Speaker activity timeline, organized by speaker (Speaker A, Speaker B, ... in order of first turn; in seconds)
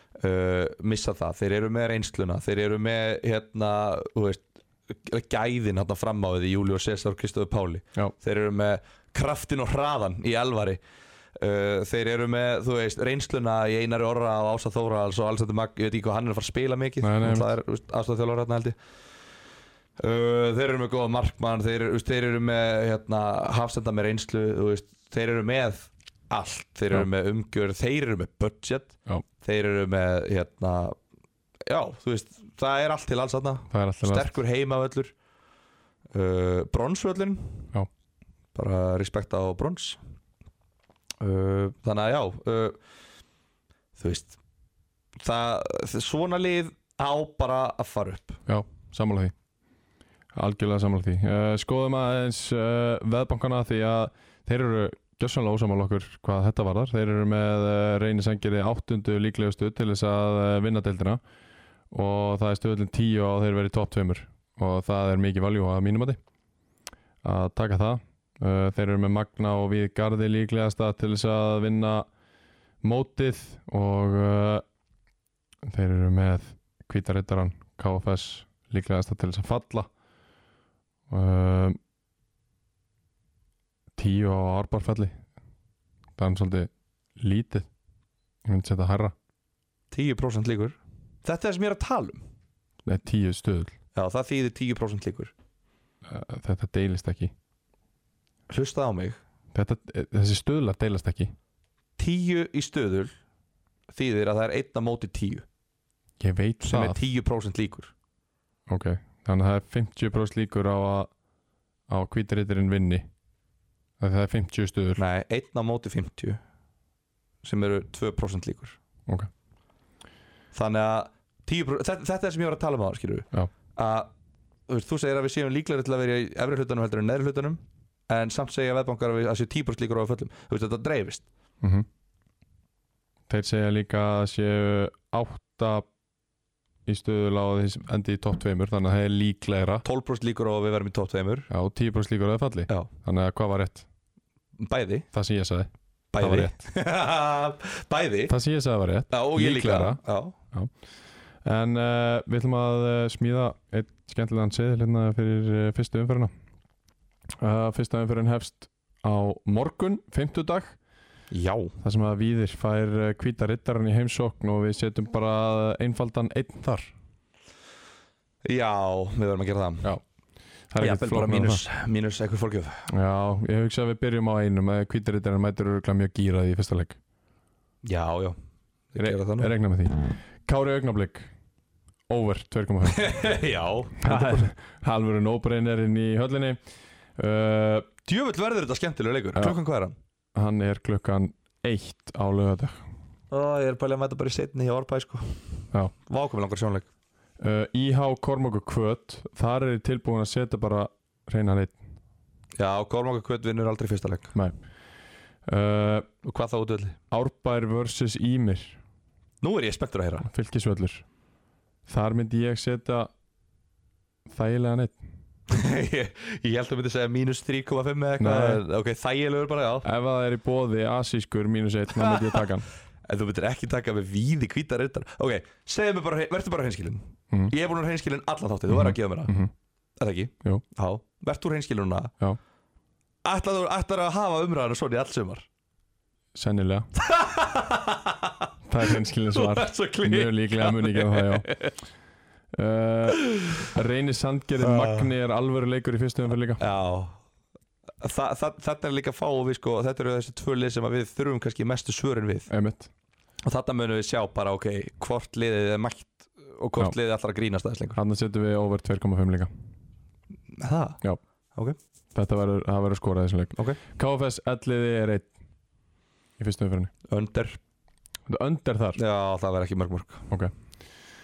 Speaker A: 0.2-10.8, 11.3-18.8, 20.0-31.0, 31.6-35.1, 36.1-37.7, 38.5-40.0, 41.2-42.8, 44.0-44.4, 45.2-48.4, 89.9-92.2, 93.9-95.3, 98.5-99.2, 102.0-103.1, 103.9-105.5, 106.6-107.9, 115.0-116.4, 117.4-118.8, 120.5-124.1, 124.7-131.3, 139.8-141.5, 144.6-145.1, 146.1-148.3, 149.1-150.3, 161.3-161.8, 168.4-169.9, 170.8-172.9, 177.8-178.4, 178.9-179.5, 182.9-184.5, 188.1-190.0, 193.3-196.9, 202.6-204.3, 206.2-207.0, 209.4-210.3, 215.5-219.8, 222.0-222.4, 223.1-229.3, 230.0-232.1, 233.2-235.5, 236.9-241.7, 244.6-245.1, 246.6-247.2, 248.0-252.5, 253.4-258.0, 260.5-261.0, 267.1-267.6, 269.0-270.3
Speaker B: 17.0-17.5, 33.7-34.3, 48.5-49.3, 50.3-61.2, 61.9-66.2, 67.2-72.1, 72.8-74.6, 75.7-79.9, 81.1-81.8, 84.0-85.2, 86.2-87.7, 88.5-89.1, 92.8-93.8, 96.1-97.3, 99.5-101.3, 106.2-107.1, 108.7-111.1, 111.9-113.0, 114.0-115.0, 133.3-135.9, 136.9-139.8, 141.5-143.9, 145.1-145.7, 146.2-146.6, 148.3-150.0, 151.4-156.3, 157.4-160.8, 161.8-166.9, 170.7-171.6, 172.9-177.0, 179.0-181.3, 182.1-183.2, 184.0-186.6, 187.2-187.9, 190.3-192.8, 197.4-201.8, 205.5-206.1, 207.1-208.8, 210.2-211.1, 211.9-213.1, 214.3-215.0, 218.2-218.6, 219.8-222.7, 228.7-229.5, 236.3-236.9, 238.7-241.5, 242.5-246.6, 252.5-252.9, 258.0-259.5, 262.1-265.3, 266.4-266.9, 268.3-269.0